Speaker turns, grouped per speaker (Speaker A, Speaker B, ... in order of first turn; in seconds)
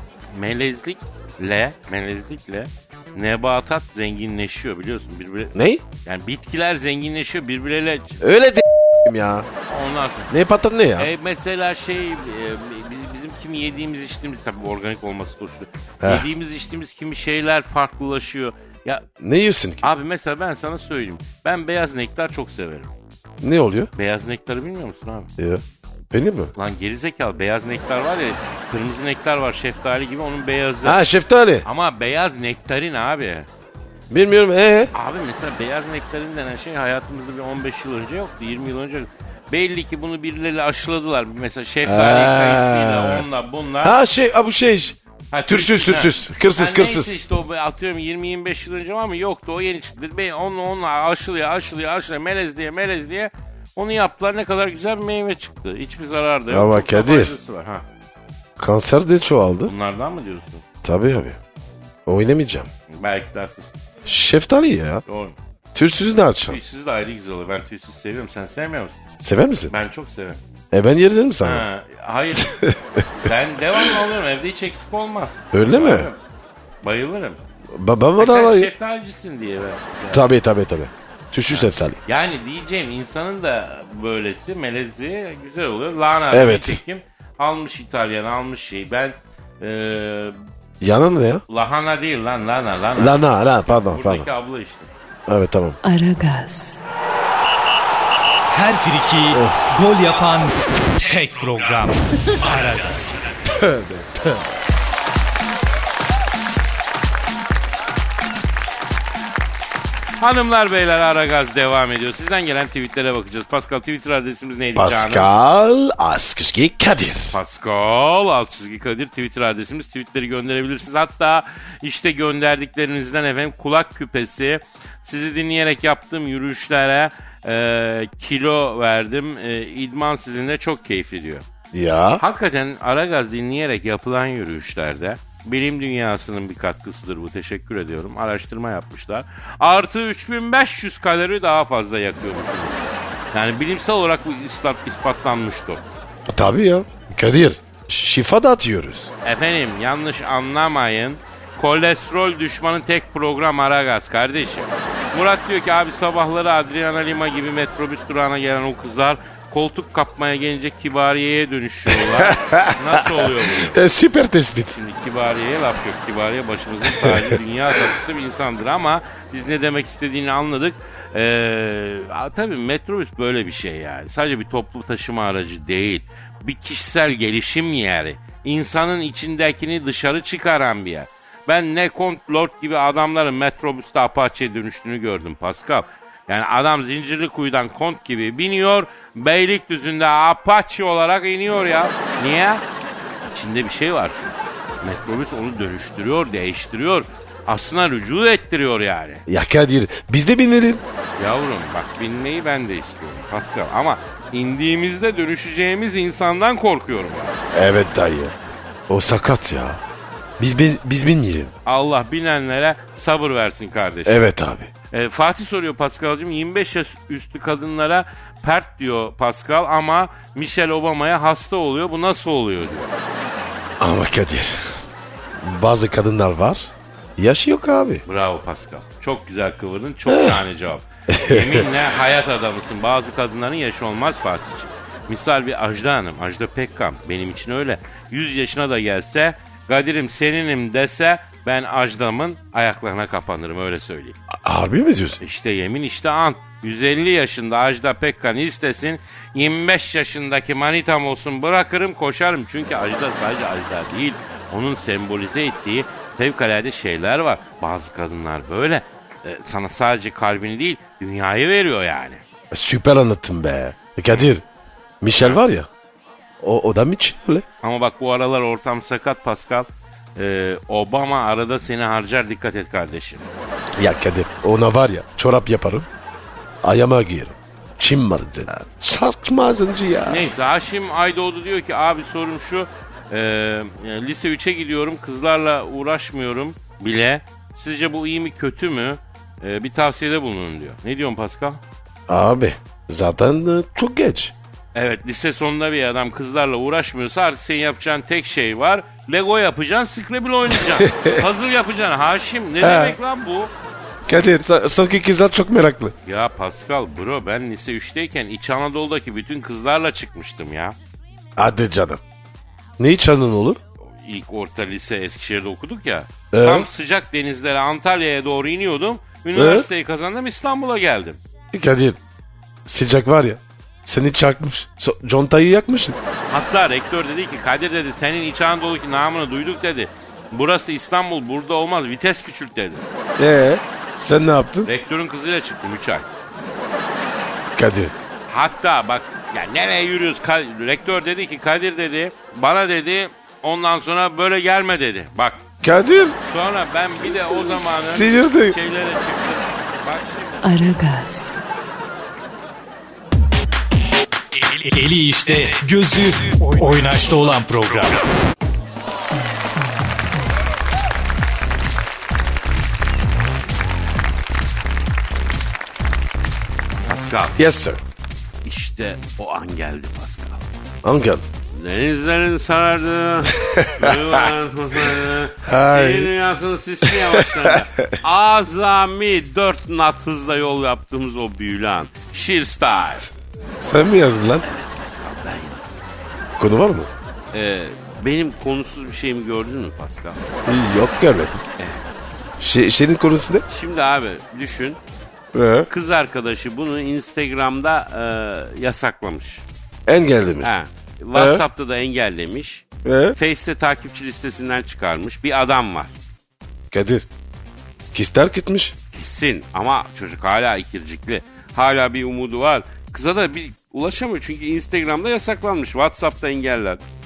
Speaker A: 0.3-8.2, 9.7-10.3, 10.9-19.0, 19.8-22.9, 23.9-25.3, 26.6-31.0, 31.6-33.5, 34.9-44.0, 45.3-57.8, 59.6-60.6, 62.9-63.7, 65.1-65.4, 66.4-68.9, 69.7-70.4, 71.4-72.5, 73.2-76.2, 76.8-77.4, 78.2-80.3, 81.5-90.3, 91.5-94.9, 110.2-115.3, 117.3-131.4, 132.2-145.8, 149.2-163.8, 164.7-192.6, 193.3-199.2, 201.2-207.4, 211.7-214.2, 214.9-222.9, 228.1-244.2, 245.2-262.2, 267.6-273.3, 280.1-291.6, 294.7-303.5, 306.1-310.8, 313.8-321.2, 326.3-332.9, 334.6-336.1, 338.3-345.4, 346.2-350.4, 366.9-367.4, 368.4-370.4, 371.5-383.1, 384.4-385.8, 387.3-390.3, 391.6-391.8, 393.5-394.8, 395.7-399.4, 400.4-402.6, 403.1-405.9, 408.9-416.8
Speaker B: 5.5-5.8, 8.2-9.5, 10.3-11.1, 16.0-16.3, 19.2-19.9, 23.4-23.9, 25.4-26.5, 30.8-31.6, 34.1-34.9, 41.8-43.2, 43.8-45.0, 45.5-47.2, 56.5-57.4, 58.6-59.7, 60.8-61.4, 62.0-62.7, 64.0-65.0, 65.7-66.6, 69.2-69.7, 70.7-71.6, 72.4-73.0, 75.5-76.1, 77.7-78.7, 80.1-82.0, 86.3-86.8, 90.8-91.4, 93.0-94.3, 95.3-95.8, 99.3-99.6, 103.5-104.4, 114.7-117.4, 131.7-132.2, 146.3-149.1, 162.0-164.7, 199.3-200.8, 207.5-208.3, 208.9-209.8, 210.4-211.5, 214.1-214.7, 223.8-224.6, 225.4-228.0, 230.1-230.4, 231.1-231.7, 244.3-245.2, 262.5-264.4, 265.0-265.7, 266.4-267.4, 273.8-275.9, 276.6-280.2, 292.1-294.3, 300.6-301.2, 302.6-303.0, 304.1-305.9, 311.4-312.0, 312.8-313.6, 316.3-316.7, 319.3-319.7, 321.5-322.0, 322.6-326.0, 333.2-334.7, 337.6-337.9, 345.6-346.2, 347.3-348.6, 367.4-367.8, 370.8-371.2, 373.4-374.2, 375.4-376.1, 376.8-377.9, 383.6-384.4, 386.4-386.9, 390.5-391.4, 392.4-393.4, 395.3-395.7, 399.9-400.5, 401.1-401.4, 402.8-403.2, 406.7-407.1, 407.9-408.7
Speaker C: 95.8-96.8, 350.4-351.4
Speaker D: 98.5-103.2, 354.3-358.0